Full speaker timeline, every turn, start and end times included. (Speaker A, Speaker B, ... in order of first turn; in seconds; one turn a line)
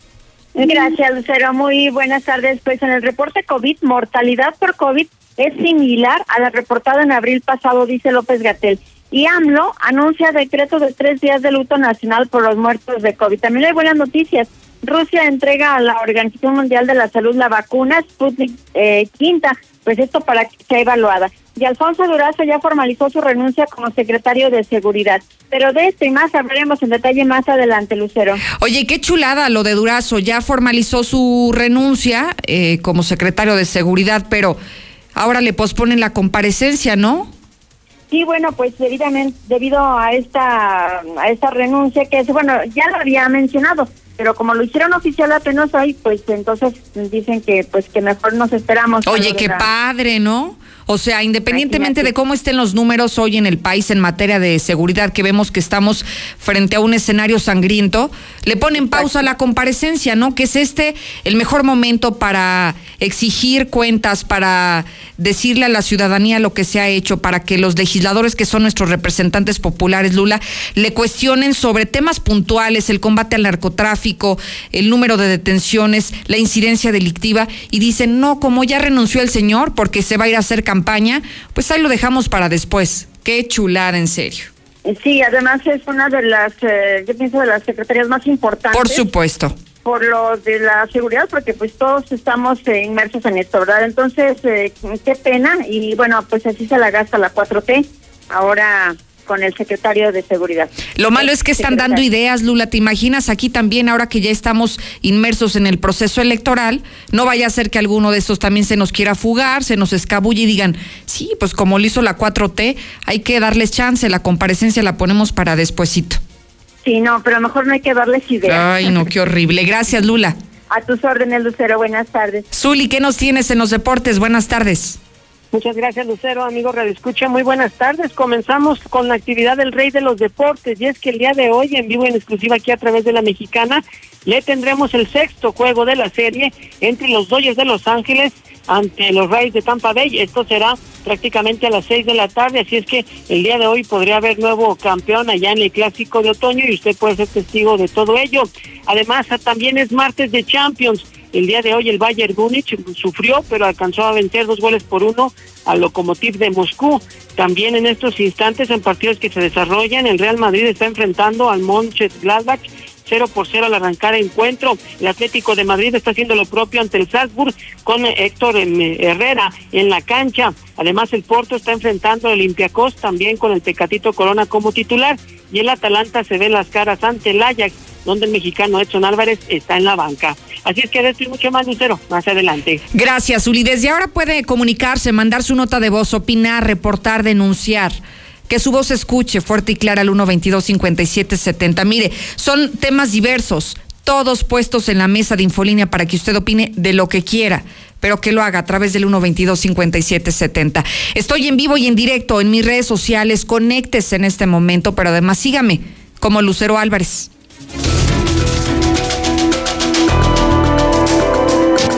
Speaker A: 0.6-28.4
Speaker B: 28.6-34.6
Speaker B: 35.1-37.3
Speaker A: 38.1-49.7
Speaker B: 49.1-84.5
Speaker A: 51.5-52.1
Speaker A: 58.8-59.1
Speaker A: 84.8-89.0
Speaker B: 88.7-89.5
Speaker A: 89.8-102.0
Speaker B: 101.0-116.2
Speaker A: 116.8-118.9
Speaker B: 118.5-120.4
Speaker A: 120.7-122.5
Speaker B: 122.5-125.0
Speaker C: 125.5-182.8
Speaker B: 182.9-188.0
Speaker B: 188.5-207.3